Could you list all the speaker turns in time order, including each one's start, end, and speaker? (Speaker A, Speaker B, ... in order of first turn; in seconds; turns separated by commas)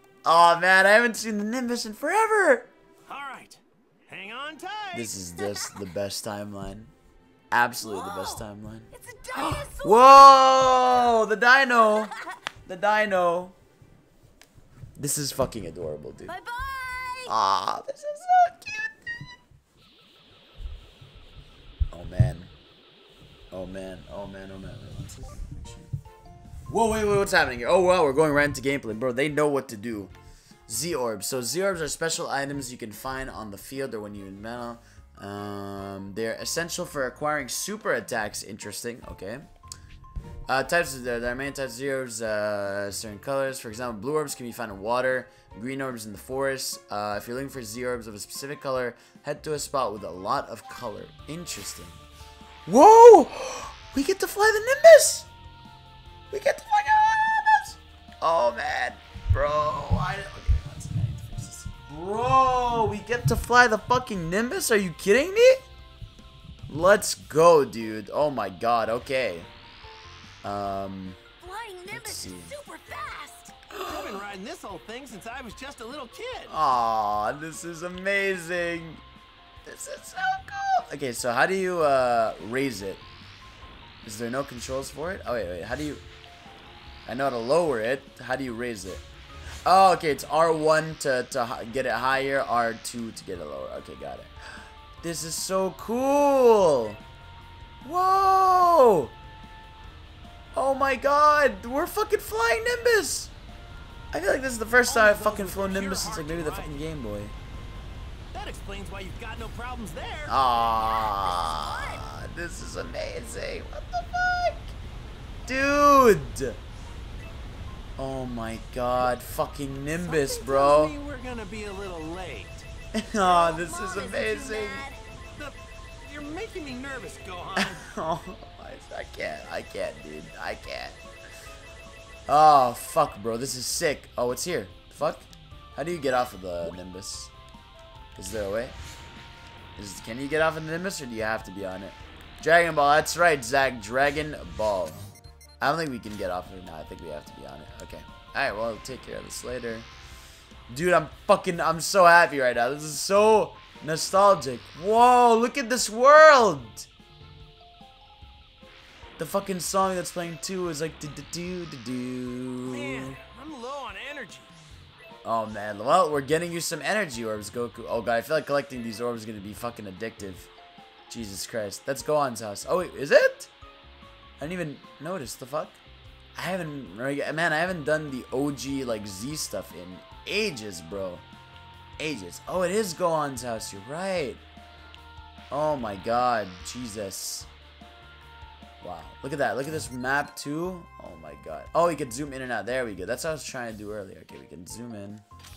Speaker A: 0.2-2.7, Speaker B: 3.1-5.1, Speaker A: 4.9-6.9, Speaker A: 7.5-12.1, Speaker C: 7.8-11.2, Speaker C: 11.8-12.4, Speaker A: 12.7-13.6, Speaker A: 15.0-16.4, Speaker C: 16.3-17.3, Speaker A: 17.3-19.0, Speaker A: 21.9-22.5, Speaker A: 23.5-25.9, Speaker A: 26.7-30.1, Speaker A: 30.7-39.4, Speaker A: 40.5-52.0, Speaker A: 52.7-55.3, Speaker A: 56.3-65.6, Speaker A: 66.7-69.5, Speaker A: 70.4-71.2, Speaker C: 71.4-73.5, Speaker A: 71.9-72.5, Speaker A: 73.7-74.2, Speaker B: 73.9-76.5, Speaker A: 76.5-79.0, Speaker A: 79.7-83.0, Speaker A: 84.0-86.0, Speaker A: 87.1-89.0, Speaker A: 89.7-97.0, Speaker A: 97.8-99.1, Speaker A: 100.5-103.3, Speaker A: 104.1-107.3, Speaker B: 104.9-106.9, Speaker B: 108.3-110.3, Speaker A: 110.3-114.7, Speaker C: 110.7-112.1, Speaker A: 115.5-116.6, Speaker A: 118.0-121.0, Speaker B: 120.0-122.7, Speaker A: 122.9-124.9, Speaker C: 123.2-125.0, Speaker B: 125.4-127.9, Speaker A: 127.6-131.0, Speaker A: 132.3-137.3, Speaker A: 138.2-138.8, Speaker A: 139.8-145.0, Speaker A: 145.6-149.9, Speaker A: 150.7-156.9, Speaker A: 159.2-163.2, Speaker B: 162.7-164.5, Speaker A: 165.2-170.5, Speaker A: 171.1-173.5, Speaker A: 174.4-175.8, Speaker A: 176.4-181.2, Speaker A: 182.0-184.4, Speaker A: 185.5-187.5, Speaker A: 188.8-195.2